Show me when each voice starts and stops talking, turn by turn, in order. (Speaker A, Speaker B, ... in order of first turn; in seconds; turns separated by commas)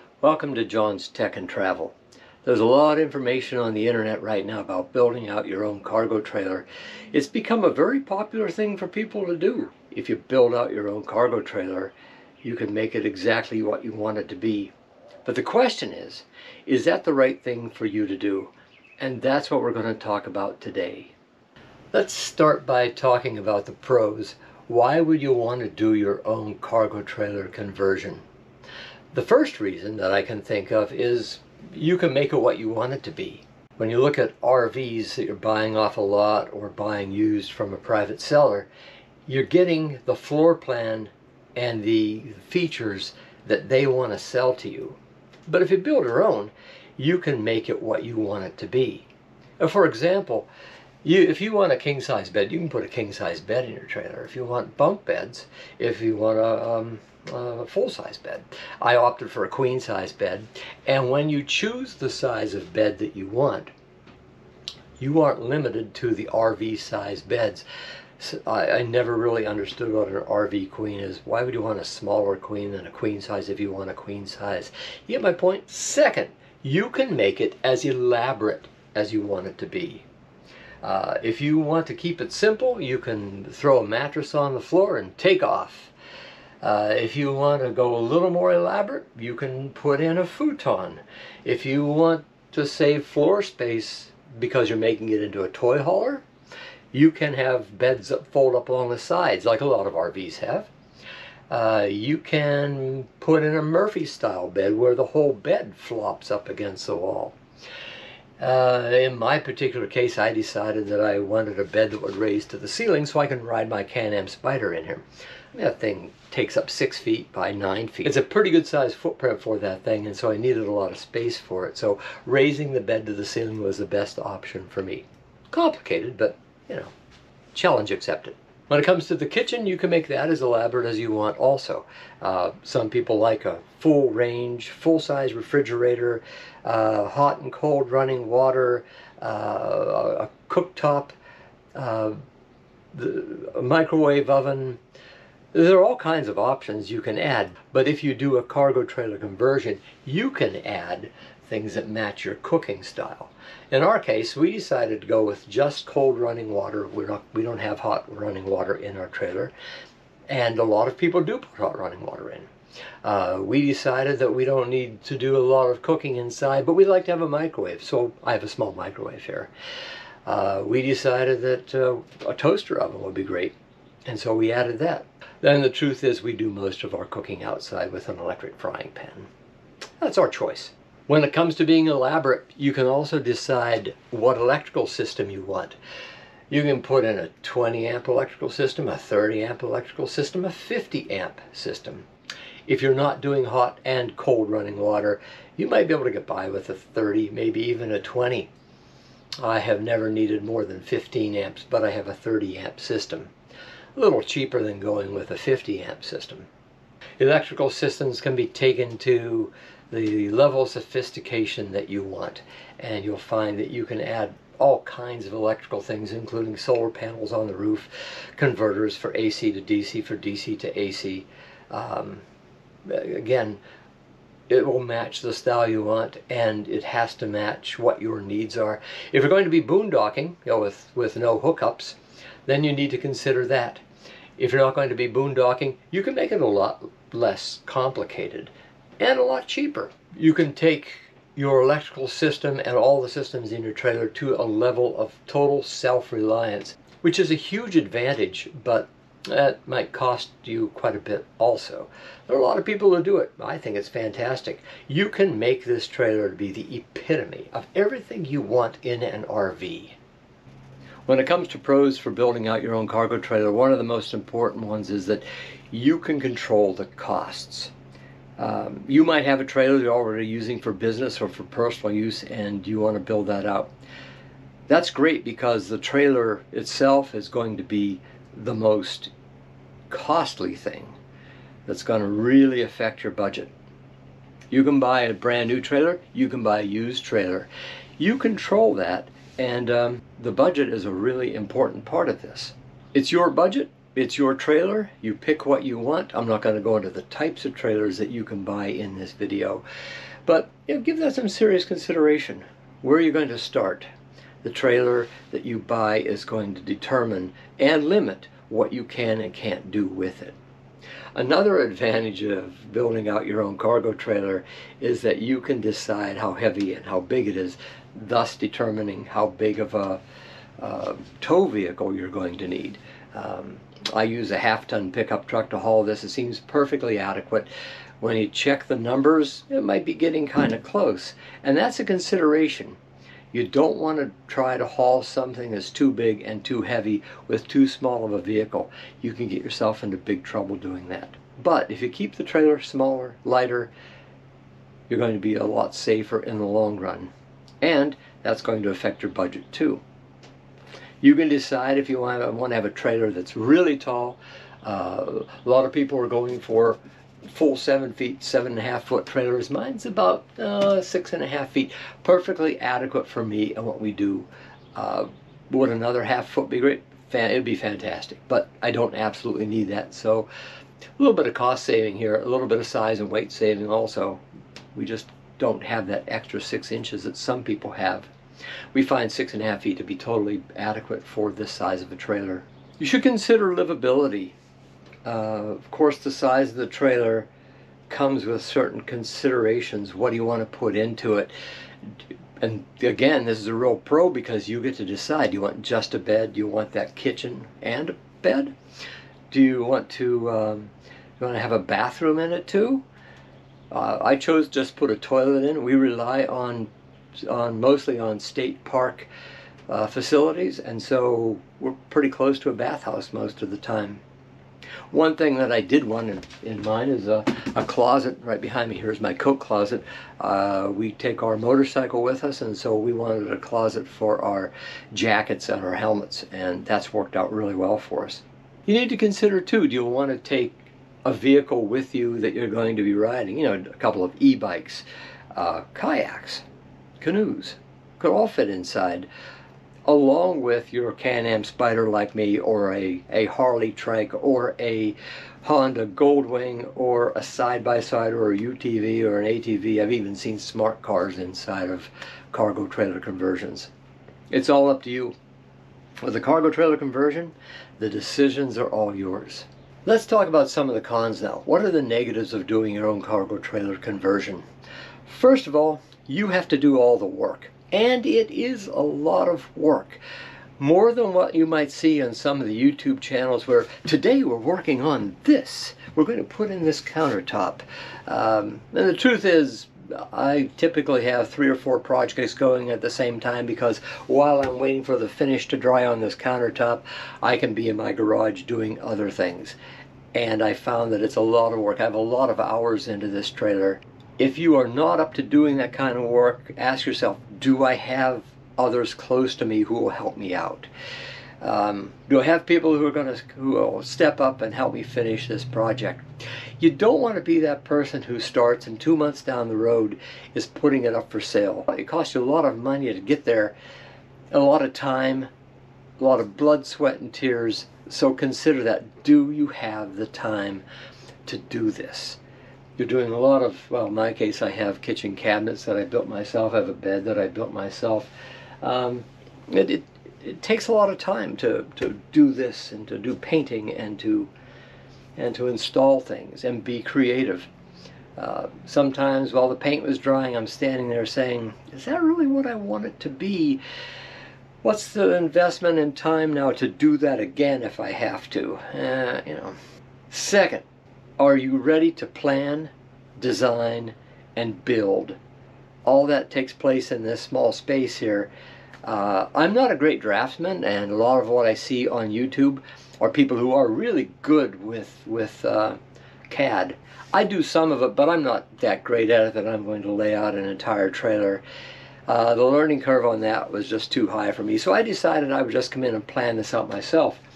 Speaker A: 0.2-14.7, Speaker A: 15.2-21.1, Speaker A: 21.9-28.2, Speaker A: 29.1-38.7, Speaker A: 39.3-49.1, Speaker A: 49.6-50.5, Speaker A: 51.0-63.7, Speaker A: 65.0-67.6, Speaker A: 68.2-80.0, Speaker A: 80.8-85.9, Speaker A: 86.6-96.2, Speaker A: 96.9-100.7, Speaker A: 101.5-107.3, Speaker A: 108.4-126.9, Speaker A: 127.5-141.1, Speaker A: 141.7-142.2, Speaker A: 142.9-144.8, Speaker A: 145.5-159.5, Speaker A: 160.3-162.5, Speaker A: 163.0-169.5, Speaker A: 170.2-179.3, Speaker A: 180.0-185.8, Speaker A: 186.5-192.1, Speaker A: 192.7-198.5, Speaker A: 199.4-203.3, Speaker A: 203.9-206.5, Speaker A: 207.2-222.2, Speaker A: 222.8-223.6, Speaker A: 224.5-233.8, Speaker A: 234.4-260.0, Speaker A: 261.1-267.7, Speaker A: 268.4-273.7, Speaker A: 274.7-279.1, Speaker A: 279.9-280.9, Speaker A: 281.6-283.5, Speaker A: 284.5-299.6, Speaker A: 300.2-303.9, Speaker A: 304.4-310.4, Speaker A: 311.1-320.0, Speaker A: 320.6-327.5, Speaker A: 328.0-332.8, Speaker A: 333.3-343.7, Speaker A: 344.9-347.1, Speaker A: 347.6-349.8, Speaker A: 351.0-370.3, Speaker A: 371.0-374.2, Speaker A: 374.7-378.1, Speaker A: 378.7-384.4, Speaker A: 385.0-387.3, Speaker A: 387.9-391.3, Speaker A: 392.4-398.5, Speaker A: 399.3-402.8, Speaker A: 403.7-406.7, Speaker A: 407.2-409.1, Speaker A: 409.7-414.0, Speaker A: 414.9-436.4, Speaker A: 437.0-439.1, Speaker A: 439.8-453.7, Speaker A: 454.3-455.1, Speaker A: 456.0-464.4, Speaker A: 465.1-470.0, Speaker A: 470.6-489.6, Speaker A: 490.1-500.7, Speaker A: 501.4-506.1, Speaker A: 506.6-513.5, Speaker A: 514.3-515.3, Speaker A: 516.0-520.6, Speaker A: 521.2-522.2, Speaker A: 522.8-528.1, Speaker A: 528.6-534.3, Speaker A: 535.2-537.5, Speaker A: 538.2-543.6, Speaker A: 544.6-549.5, Speaker A: 550.1-550.6, Speaker A: 551.2-555.2, Speaker A: 555.8-558.3, Speaker A: 558.8-565.8, Speaker A: 566.3-571.4, Speaker A: 572.1-577.2